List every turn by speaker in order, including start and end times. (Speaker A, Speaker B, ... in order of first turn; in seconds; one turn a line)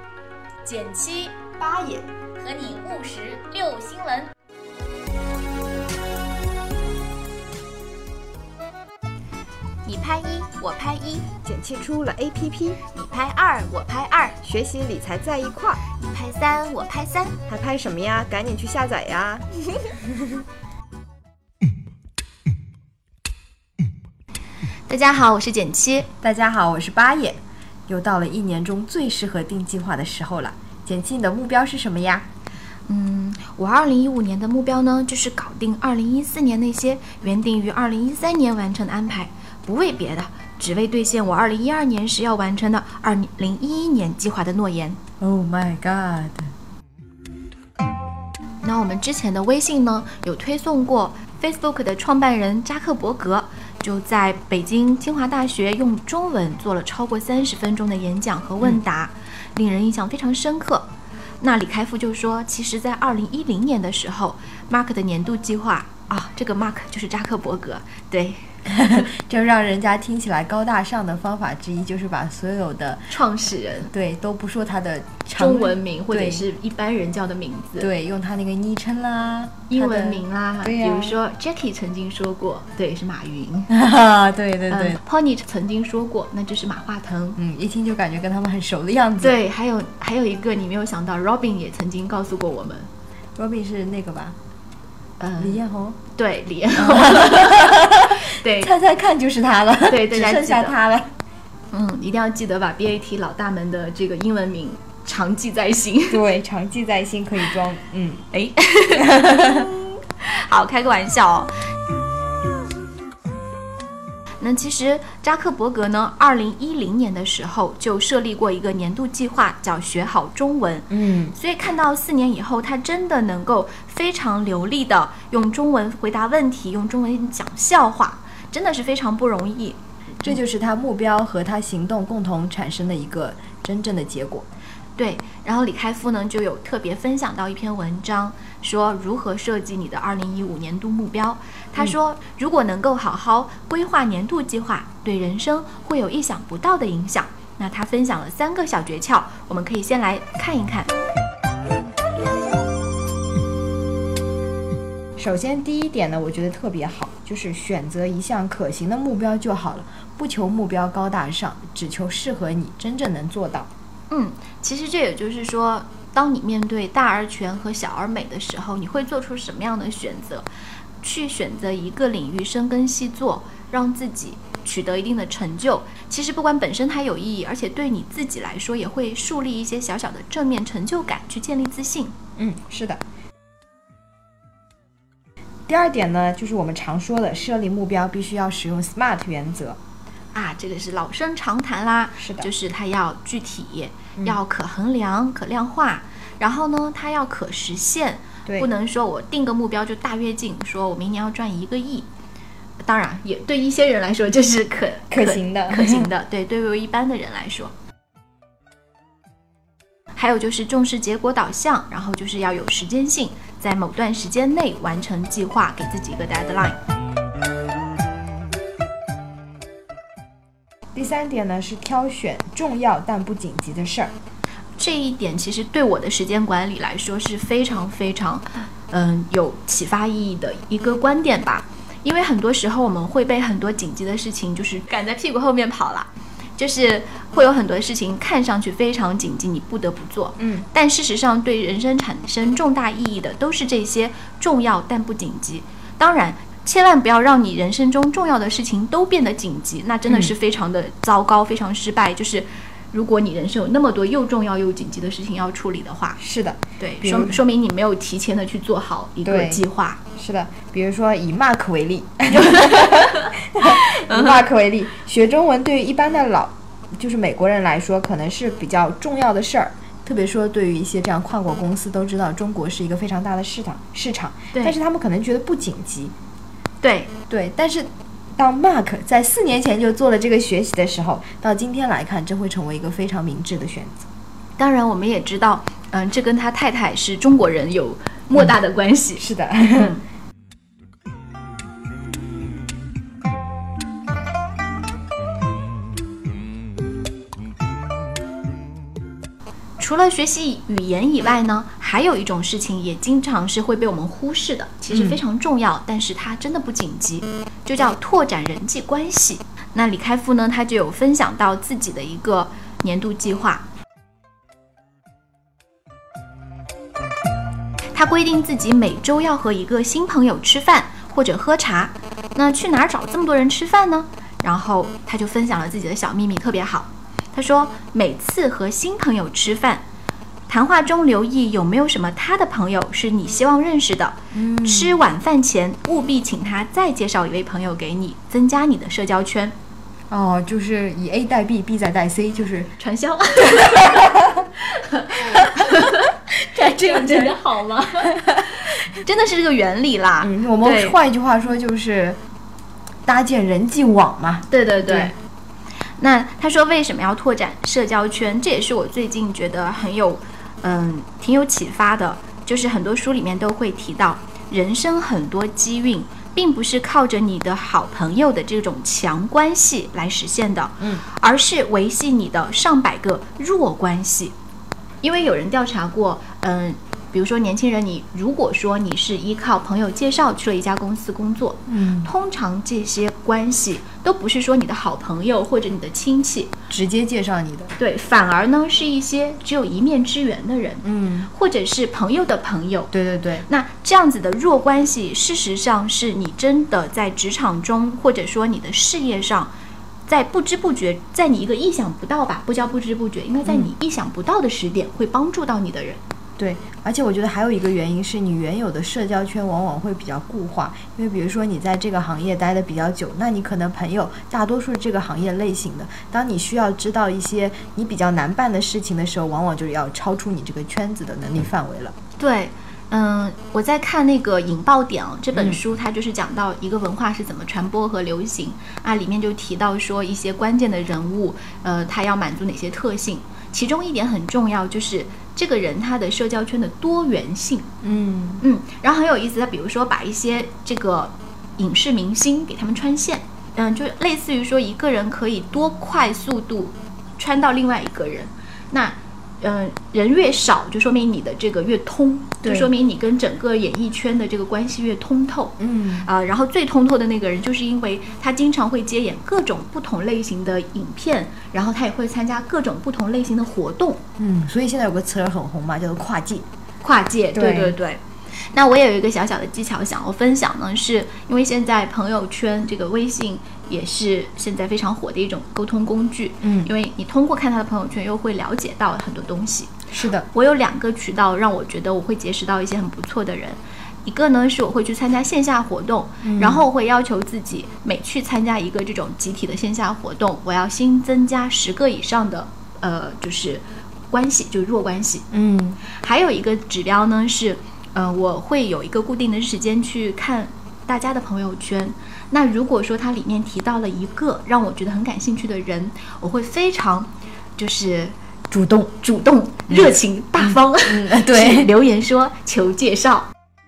Speaker A: 0.6-1.4
Speaker B: 1.6-2.0
Speaker A: 2.3-4.3
Speaker A: 9.8-11.3
Speaker B: 11.4-12.8
Speaker A: 12.9-14.4
Speaker B: 14.4-15.8
Speaker A: 16.0-17.4
Speaker B: 17.5-20.4
Speaker A: 24.9-26.1
Speaker B: 26.2-32.2
Speaker A: 32.9-45.0
Speaker B: 45.2-46.5
Speaker A: 48.6-60.9
Speaker A: 61.4-68.5
Speaker B: 68.7-73.1
Speaker A: 73.1-73.9
Speaker B: 73.9-76.4
Speaker A: 75.3-77.9
Speaker B: 77.8-81.2
Speaker A: 79.7-83.7
Speaker B: 83.7-85.0
Speaker A: 84.7-87.4
Speaker B: 87.4-89.4
Speaker A: 89.2-92.9
Speaker B: 93.3-94.4
Speaker A: 95.2-98.7
Speaker B: 95.4-96.0
Speaker B: 96.8-101.1
Speaker A: 99.8-100.8
Speaker A: 101.7-106.2
Speaker B: 106.1-108.2
Speaker A: 108.3-111.5
Speaker B: 109.0-109.7
Speaker A: 114.4-130.4
Speaker B: 120.9-121.3
Speaker B: 130.2-134.5
Speaker A: 135.0-150.9
Speaker B: 155.2-163.7
Speaker A: 164.1-170.5
Speaker A: 171.0-182.1
Speaker B: 182.4-183.0
Speaker B: 185.7-189.8
Speaker A: 190.3-202.1
Speaker B: 192.2-192.5
Speaker A: 202.8-207.7
Speaker B: 205.1-206.1
Speaker A: 210.1-216.8
Speaker B: 220.9-224.1
Speaker A: 224.8-256.2
Speaker B: 240.4-240.7
Speaker B: 250.1-250.3
Speaker B: 256.2-257.4
Speaker A: 256.8-260.0
Speaker B: 259.2-259.6
Speaker B: 260.1-276.1
Speaker A: 262.3-264.4
Speaker A: 276.8-277.1
Speaker B: 277.3-284.1
Speaker A: 284.6-290.0
Speaker B: 289.2-290.0
Speaker A: 299.8-313.6
Speaker B: 304.9-305.2
Speaker A: 317.9-329.8
Speaker A: 330.5-339.5
Speaker B: 334.3-335.0
Speaker B: 340.1-342.7
Speaker A: 342.8-351.0
Speaker B: 343.6-344.4
Speaker B: 346.5-347.4
Speaker B: 348.0-348.6
Speaker B: 350.2-352.2
Speaker B: 353.1-355.1
Speaker A: 354.5-355.2
Speaker A: 356.0-374.3
Speaker A: 375.0-386.5
Speaker B: 381.7-382.1
Speaker B: 386.7-387.7
Speaker A: 387.8-392.9
Speaker B: 390.8-391.3
Speaker B: 392.9-393.4
Speaker A: 393.4-399.5
Speaker A: 400.1-406.0
Speaker B: 403.4-403.7
Speaker B: 406.4-421.9
Speaker A: 422.2-437.7
Speaker B: 425.3-425.6
Speaker B: 437.8-438.4
Speaker A: 438.4-464.0
Speaker B: 452.4-452.7
Speaker B: 455.6-456.1
Speaker B: 464.2-466.4
Speaker A: 466.8-479.8
Speaker B: 467.3-467.8
Speaker B: 476.4-476.7
Speaker B: 479.9-480.3
Speaker A: 480.3-495.2
Speaker B: 486.2-486.6
Speaker B: 495.3-495.8
Speaker A: 495.8-508.1
Speaker B: 508.5-508.9
Speaker A: 508.8-513.3
Speaker B: 509.7-511.7